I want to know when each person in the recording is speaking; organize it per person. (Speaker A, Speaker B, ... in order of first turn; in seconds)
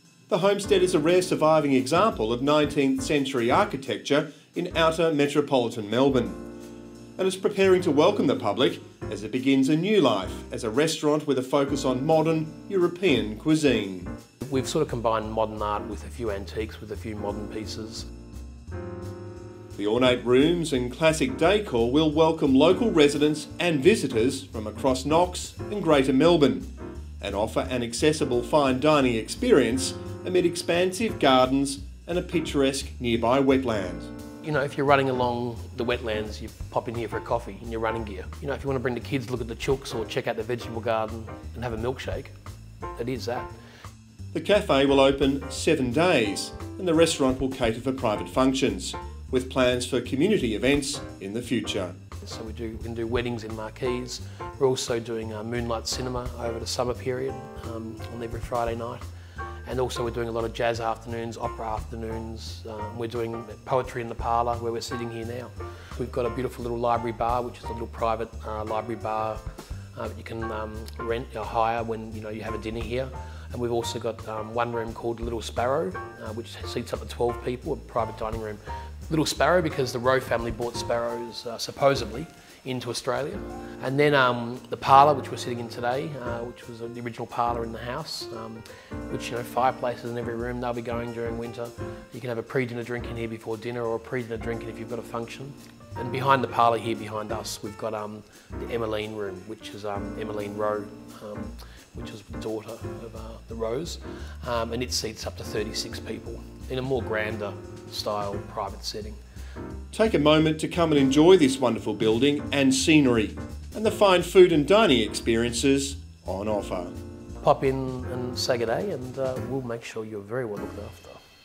Speaker A: 0.3-6.4, 7.2-14.1, 19.8-26.7, 27.2-34.1, 44.3-52.0, 109.9-116.9
Speaker B: 14.4-18.1, 34.4-42.3, 43.0-43.5, 52.2-59.0, 59.6-69.4, 70.0-109.2, 117.4-121.2